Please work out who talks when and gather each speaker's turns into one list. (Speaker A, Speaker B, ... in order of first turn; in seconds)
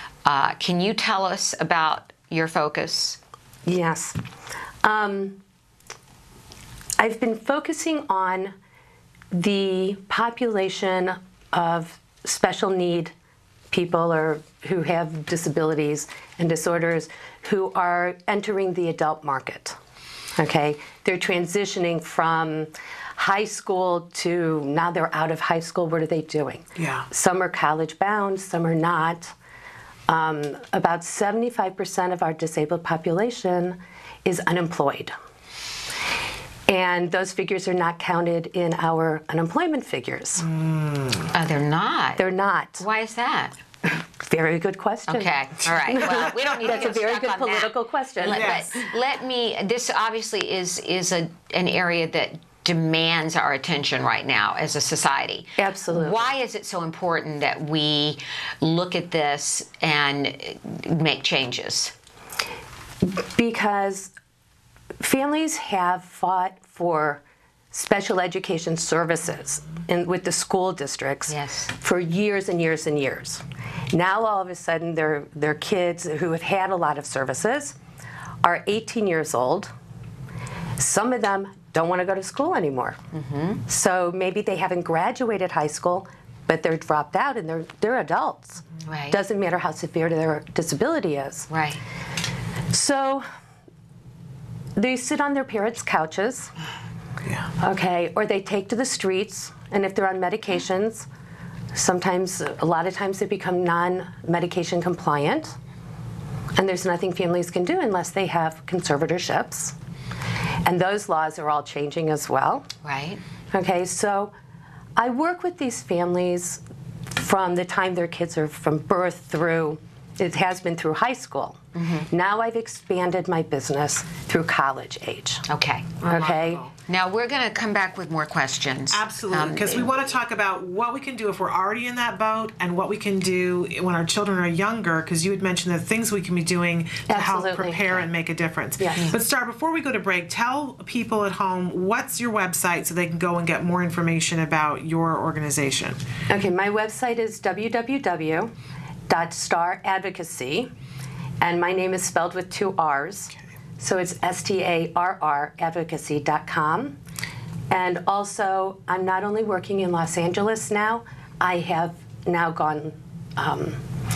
Speaker A: 0.2-3.2, 41.3-42.2, 42.8-43.5, 45.1-61.9, 71.3-71.7, 83.1-83.6, 88.9-89.2, 91.5-91.8, 112.8-113.2, 121.7-122.0, 125.5-126.0, 126.9-129.9
Speaker B: 3.6-4.2, 4.8-5.4, 7.0-8.5, 9.3-13.1, 13.7-19.8, 20.4-29.3, 30.1-35.1, 36.7-40.5, 42.2-42.8, 43.9-45.3, 45.9-48.6, 55.6-56.3, 63.0-64.1, 65.0-77.8, 78.4-79.7, 80.8-83.0, 83.7-91.5, 92.7-93.2, 94.8-96.5, 97.6-101.1, 101.7-105.5, 106.6-109.7, 110.6-112.7, 113.5-114.3, 115.0-121.6, 122.1-125.4, 126.0-126.6, 137.1-138.0, 138.8-139.2, 146.3-148.5, 149.1-150.7, 151.4-156.9, 157.7-163.8
Speaker C: 26.8-27.1, 40.4-41.3, 48.2-48.7, 126.0-126.7, 128.9-146.0